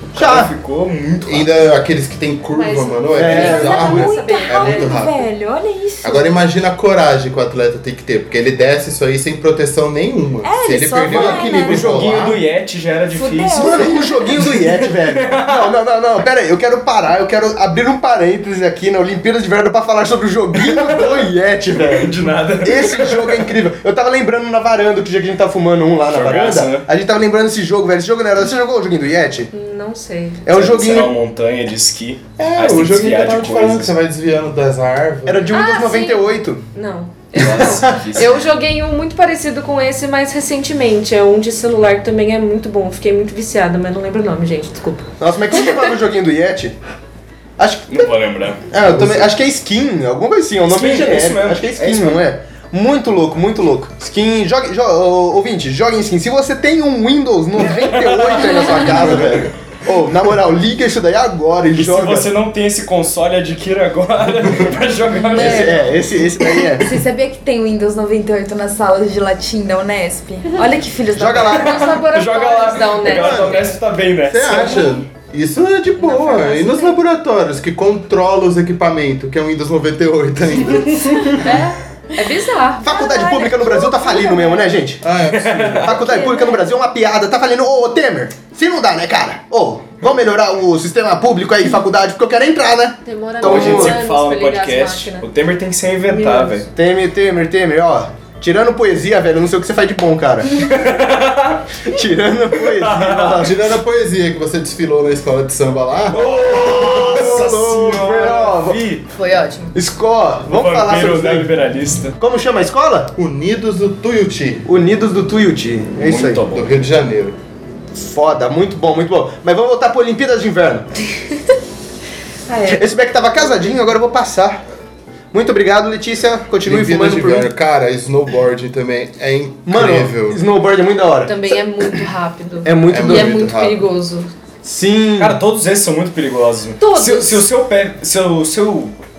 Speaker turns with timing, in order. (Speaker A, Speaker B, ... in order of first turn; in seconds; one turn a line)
Speaker A: 0.1-1.7
Speaker B: 0.1-0.5
Speaker C: 1.2-5.2
Speaker D: 2.5-5.0
Speaker B: 3.1-4.1
Speaker E: 3.2-6.3
Speaker C: 6.0-12.4
Speaker E: 10.4-11.8
Speaker A: 11.1-15.7
Speaker E: 13.1-14.2
Speaker B: 13.5-29.5
Speaker A: 20.5-23.5
Speaker A: 26.1-26.9
Speaker D: 29.5-30.4
Speaker B: 30.4-31.1
Speaker A: 30.5-33.9
Speaker C: 32.4-35.6
Speaker B: 35.2-36.6
Speaker D: 35.5-45.1
Speaker A: 37.4-38.3
Speaker B: 37.4-37.9
Speaker B: 45.2-46.8
Speaker B: 47.6-48.1
Speaker A: 47.9-48.6
Speaker B: 48.7-62.3
Speaker C: 48.8-49.3
Speaker A: 50.7-52.2
Speaker A: 57.6-59.4
Speaker C: 59.2-59.5
Speaker A: 61.7-65.9
Speaker B: 65.3-66.9
Speaker E: 65.3-65.8
Speaker E: 66.8-71.8
Speaker B: 71.1-71.8
Speaker A: 71.5-74.9
Speaker D: 71.5-73.7
Speaker B: 73.0-73.8
Speaker C: 74.3-81.4
Speaker D: 76.0-76.9
Speaker E: 76.2-76.9
Speaker D: 81.4-82.9
Speaker E: 82.8-84.8
Speaker B: 82.8-85.0
Speaker C: 85.0-86.0
Speaker A: 85.3-86.0
Speaker B: 85.8-94.0
Speaker E: 86.0-86.6
Speaker D: 93.0-95.2
Speaker A: 93.4-96.7
Speaker D: 96.1-96.7
Speaker B: 96.7-100.5
Speaker A: 100.5-101.8
Speaker B: 101.8-103.6
Speaker A: 102.5-103.5
Speaker C: 103.4-106.2
Speaker A: 106.1-109.0
Speaker B: 106.1-108.8
Speaker D: 109.1-109.8
Speaker B: 109.7-111.5
Speaker A: 110.4-112.2
Speaker B: 112.2-113.1
Speaker C: 113.2-114.7
Speaker B: 114.6-116.4
Speaker A: 116.0-116.7
Speaker C: 116.5-117.4
Speaker B: 117.9-120.9
Speaker D: 122.5-122.8
Speaker B: 122.7-124.6
Speaker B: 125.3-127.5
Speaker C: 126.6-130.4
Speaker B: 129.7-132.0
Speaker D: 131.2-134.3
Speaker B: 132.6-133.5
Speaker C: 132.9-133.8
Speaker B: 134.6-135.4
Speaker A: 135.2-139.0
Speaker D: 136.8-137.4